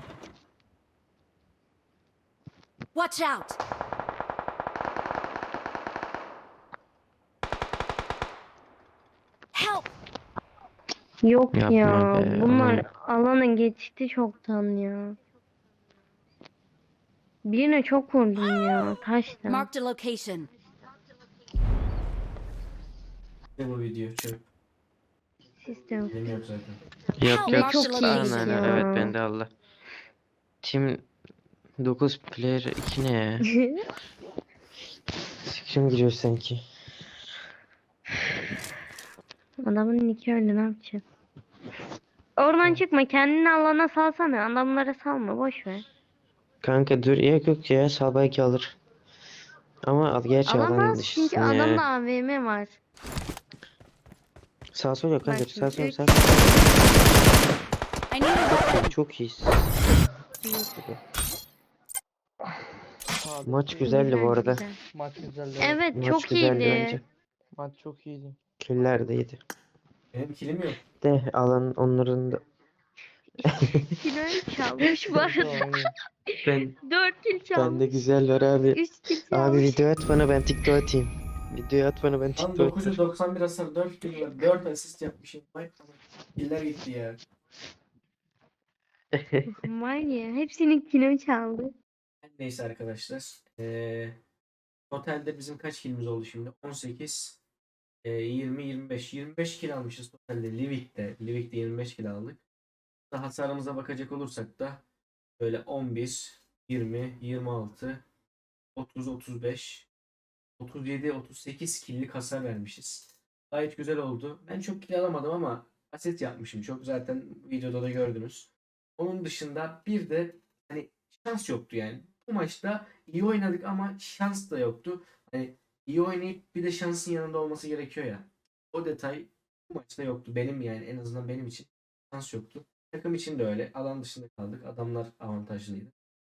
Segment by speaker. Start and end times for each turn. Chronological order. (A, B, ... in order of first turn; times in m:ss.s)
0:02.9-0:03.6 A
0:09.5-0:09.8 A
0:11.2-0:15.2 B
0:11.5-0:12.8 C
0:17.4-0:19.7 B
0:19.5-0:20.5 A
0:23.6-0:24.5 D
0:25.6-0:26.4 B
0:26.1-0:26.8 D
0:27.2-0:29.5 C
0:27.4-0:28.7 A
0:27.5-0:29.1 B
0:30.6-0:31.1 C
0:31.8-0:33.4 C
0:33.5-0:33.8 B
0:35.4-0:36.6 C
0:39.6-0:41.0 B
0:42.4-0:45.8 B
0:46.6-0:48.8 C
0:49.9-0:51.8 C
0:50.5-0:52.8 B
0:54.7-0:56.7 C
0:55.2-0:56.1 B
0:58.1-0:58.7 A
0:58.5-0:59.8 C
1:00.5-1:00.7 B
1:00.7-1:01.0 C
1:03.2-1:04.0 E
1:03.4-1:04.6 C
1:03.8-1:04.8 B
1:04.9-1:06.1 E
1:05.6-1:07.0 B
1:06.0-1:07.0 C
1:07.6-1:08.4 E
1:08.6-1:09.4 C
1:10.1-1:10.8 D
1:11.0-1:12.4 C
1:13.4-1:14.0 C
1:14.0-1:15.7 B
1:14.8-1:15.2 C
1:15.2-1:15.9 E
1:16.3-1:18.0 B
1:16.4-1:16.8 C
1:17.5-1:23.0 C
1:18.7-1:19.8 B
1:22.4-1:27.2 D
1:29.1-1:29.6 C
1:29.5-1:31.7 B
1:32.2-1:34.2 D
1:34.9-1:37.4 D
1:38.0-1:42.4 D
1:43.1-1:44.8 D
1:45.4-1:48.0 D
1:48.8-1:49.9 D
1:50.6-2:15.9 D